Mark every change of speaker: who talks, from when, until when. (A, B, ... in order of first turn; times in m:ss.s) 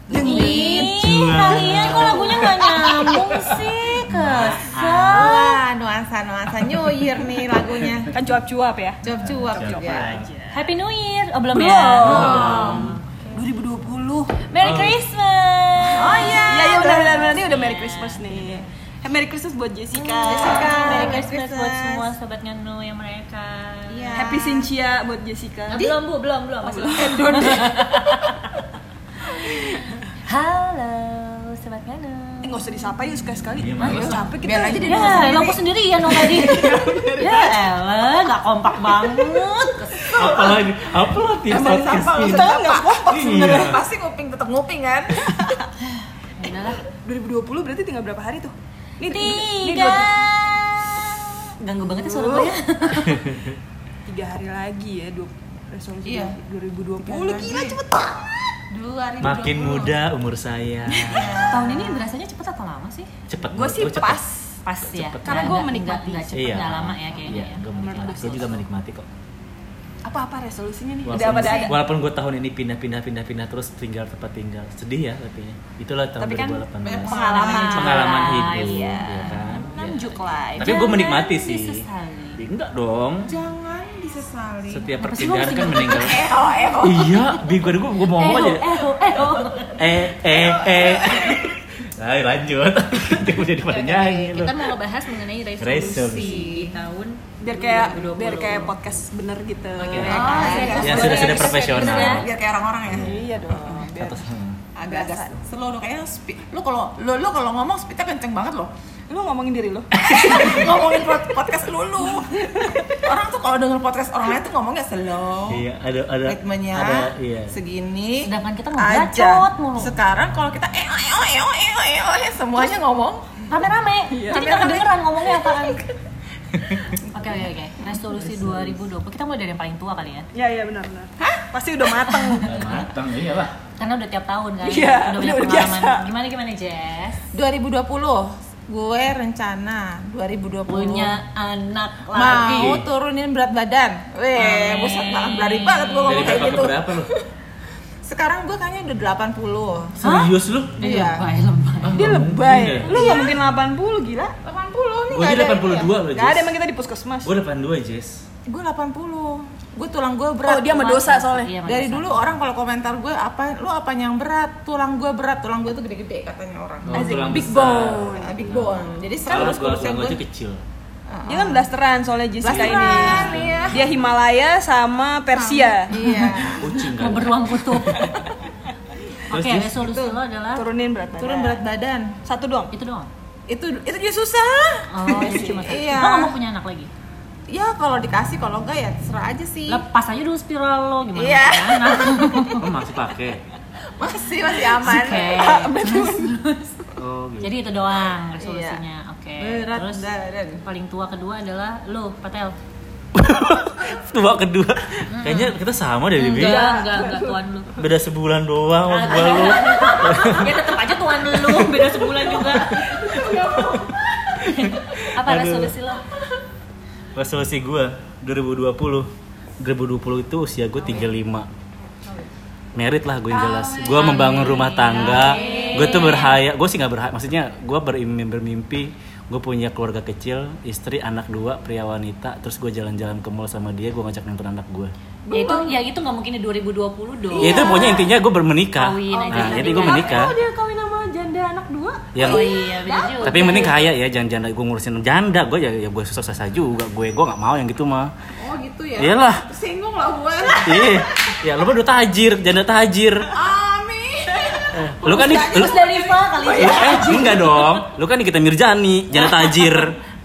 0:00.1-0:03.5 A
0:00.1-0:05.5 B
0:00.2-0:00.9 C
0:00.3-0:05.4 D
0:04.4-0:08.1 C
0:08.1-0:10.7 A
0:09.0-0:10.1 C
0:09.1-0:10.3 D
0:10.5-0:13.4 B
0:11.5-0:14.3 A
0:12.0-0:12.9 D
0:12.0-0:12.9 C
0:14.5-0:16.5 B
0:14.6-0:15.0 D
0:15.9-0:17.4 C
0:16.4-0:21.3 A
0:17.0-0:18.6 B
0:20.0-0:22.1 C
0:20.2-0:24.2 B
0:23.9-0:24.7 C
0:24.1-0:25.9 A
0:25.7-0:28.5 B
0:26.6-0:27.3 A
0:26.9-0:28.3 C
0:29.4-0:32.8 B
0:32.4-0:35.5 A
0:33.6-0:34.2 D
0:33.8-0:34.2 B
0:34.4-0:35.6 C
0:34.8-0:40.2 B
0:36.2-0:37.6 A
0:36.3-0:36.9 D
0:39.0-0:39.4 A
0:40.0-0:40.6 A
0:40.1-0:42.5 D
0:41.4-0:45.5 C
0:41.8-0:43.8 A
0:43.1-0:43.8 D
0:45.3-0:45.6 A
0:45.8-0:46.8 B
0:46.9-0:50.3 A
0:49.1-0:51.0 B
0:51.6-0:53.3 B
0:51.9-0:52.6 A
0:52.9-0:53.6 D
0:54.1-0:58.5 A
0:56.0-0:56.4 C
0:57.0-0:57.8 C
0:58.7-1:00.0 C
0:59.2-1:01.7 D
1:01.0-1:01.4 A
1:01.0-1:02.1 C
1:01.5-1:03.1 B
1:03.3-1:04.2 D
1:03.5-1:04.6 A
1:04.7-1:08.6 B
1:04.8-1:05.7 D
1:05.3-1:06.3 A
1:06.3-1:09.1 D
1:07.9-1:08.6 A
1:10.0-1:11.8 A
1:11.1-1:21.8 D
1:11.2-1:11.7 B
1:16.2-1:20.9 A
1:16.8-1:18.0 C
1:17.1-1:19.8 B
1:20.6-1:22.4 B
1:22.4-1:23.3 D
1:23.2-1:24.9 C
1:24.7-1:26.2 D
1:25.0-1:26.2 B
1:25.9-1:27.6 C
1:26.8-1:28.8 D
1:28.1-1:29.8 B
1:29.8-1:34.7 D
1:30.2-1:31.5 C
1:33.6-1:38.8 B
1:35.6-1:36.5 D
1:35.8-1:36.8 C
1:37.4-1:42.2 A
1:39.8-1:42.3 D
1:39.9-1:44.0 C
1:40.0-1:42.2 B
1:42.9-1:44.6 D
1:42.9-1:44.2 A
1:44.8-1:48.7 C
1:44.8-1:45.4 A
1:49.1-1:50.1 A
1:50.0-1:50.7 D
1:50.0-1:55.7 C
1:52.4-1:53.0 A
1:55.5-1:57.6 D
1:56.2-2:03.5 C
1:58.2-2:00.0 B
2:03.5-2:05.9 B
2:04.1-2:04.6 A
2:04.3-2:04.9 C
2:06.5-2:07.0 D
2:07.1-2:10.3 B
2:08.2-2:08.8 D
2:10.3-2:12.6 A
2:11.2-2:11.5 C
2:12.1-2:12.8 B
2:12.4-2:13.6 D
2:13.8-2:17.2 B
2:14.6-2:16.1 A
2:17.3-2:21.1 C
2:20.7-2:22.7 B
2:22.1-2:27.2 C
2:22.2-2:22.9 D
2:24.4-2:26.7 B
2:26.1-2:27.1 D
2:28.0-2:30.0 C
2:30.0-2:31.0 D
2:30.0-2:32.0 B
2:30.8-2:31.2 C
2:31.8-2:33.0 D
2:31.9-2:34.4 A
2:32.9-2:33.3 B
2:32.9-2:33.3 C
2:34.4-2:35.9 C
2:35.1-2:36.5 D
2:36.1-2:37.3 A
2:37.2-2:38.3 D
2:38.5-2:40.9 C
2:40.4-2:41.5 A
2:40.7-2:42.4 B
2:41.6-2:50.2 C
2:46.9-2:50.6 D
2:46.9-2:48.5 A
2:51.1-2:51.7 C
2:51.3-2:55.9 A
2:52.4-2:53.9 C
2:52.5-2:54.0 D
2:55.3-2:56.7 C
2:55.9-2:58.1 B
2:56.4-2:58.2 D
2:59.3-2:59.8 D
2:59.3-3:00.6 B
2:59.8-3:00.2 C
3:00.5-3:01.6 A
3:01.2-3:02.2 C
3:02.2-3:02.7 A
3:02.7-3:03.1 B
3:03.5-3:06.3 C
3:04.9-3:06.9 B
3:05.1-3:05.8 A
3:07.5-3:09.8 C
3:09.7-3:12.7 B
3:11.2-3:12.6 C
3:12.6-3:13.4 D
3:14.0-3:15.5 C
3:14.8-3:16.8 B
3:14.8-3:16.3 A
3:16.9-3:17.6 D
3:17.4-3:20.1 B
3:18.4-3:18.8 C
3:19.4-3:20.6 C
3:20.6-3:22.6 B
3:23.2-3:26.7 D
3:25.1-3:25.6 B
3:26.2-3:27.8 B
3:26.3-3:27.4 A
3:27.8-3:30.5 D
3:28.9-3:32.8 B
3:31.3-3:33.9 D
3:32.8-3:34.6 C
3:33.1-3:33.6 A
3:34.4-3:35.8 D
3:34.5-3:36.0 B
3:37.2-3:39.1 D
3:39.6-3:41.5 D
3:42.8-3:54.9 D
3:43.3-3:44.2 C
3:43.9-3:46.4 B
3:45.0-3:46.1 C
3:45.1-3:45.9 A
3:55.3-3:55.8 A
3:55.3-3:57.9 B
3:57.3-3:58.1 C
3:57.4-4:00.4 D
3:57.4-3:58.0 A
3:58.8-4:00.3 B
3:59.1-3:59.9 C
3:59.3-4:02.4 A
4:02.2-4:02.5 D
4:02.2-4:03.8 B
4:02.3-4:03.7 C
4:03.0-4:03.6 A
4:03.2-4:08.1 D
4:08.4-4:11.4 C
4:09.0-4:09.4 D
4:10.6-4:13.3 D
4:13.3-4:17.3 C
4:14.5-4:17.3 A
4:14.7-4:15.7 D
4:15.1-4:17.8 B
4:16.5-4:20.0 D